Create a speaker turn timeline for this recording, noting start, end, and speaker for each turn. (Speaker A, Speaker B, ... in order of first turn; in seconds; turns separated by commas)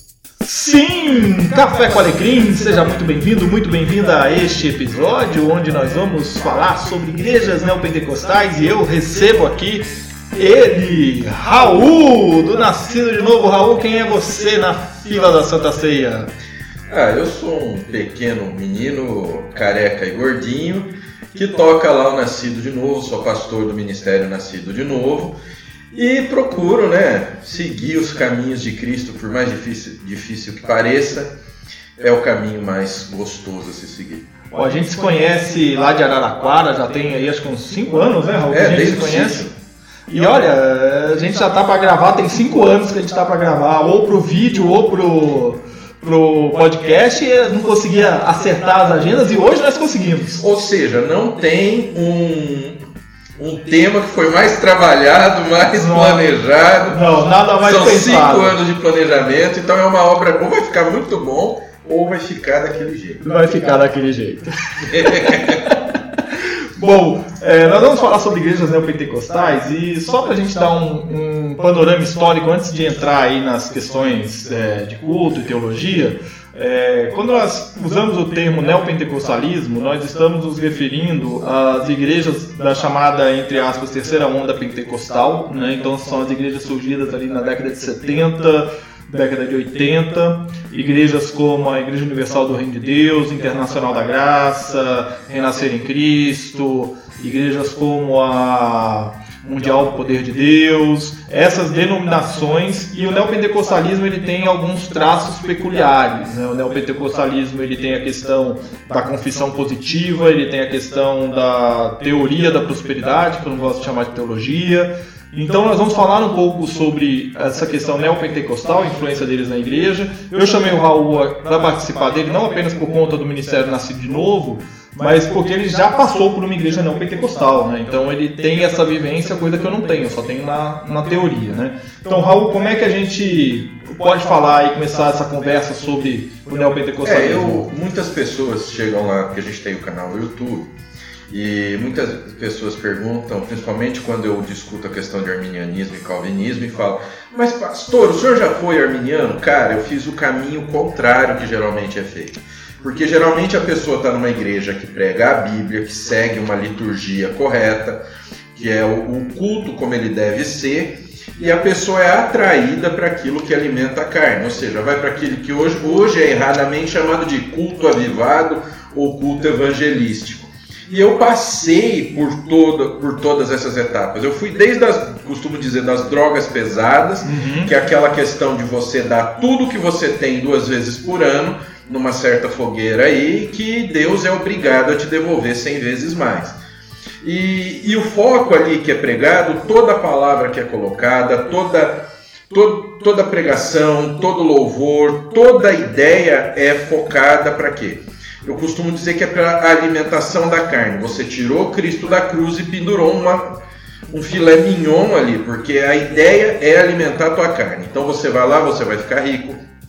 Speaker A: 0.4-16.3, Speaker B: 16.9-25.4, Speaker B: 25.9-31.3, Speaker B: 32.0-34.3, Speaker A: 34.5-39.5, Speaker B: 38.5-39.5, Speaker A: 40.1-50.4, Speaker B: 50.4-52.8, Speaker B: 53.4-57.0, Speaker A: 55.7-56.2, Speaker A: 56.9-58.6, Speaker B: 57.6-63.2, Speaker A: 63.2-137.7, Speaker B: 64.9-65.6, Speaker B: 137.0-140.7, Speaker B: 141.3-158.0, Speaker B: 158.5-186.6, Speaker A: 177.2-177.7, Speaker B: 187.2-203.5, Speaker B: 204.1-209.6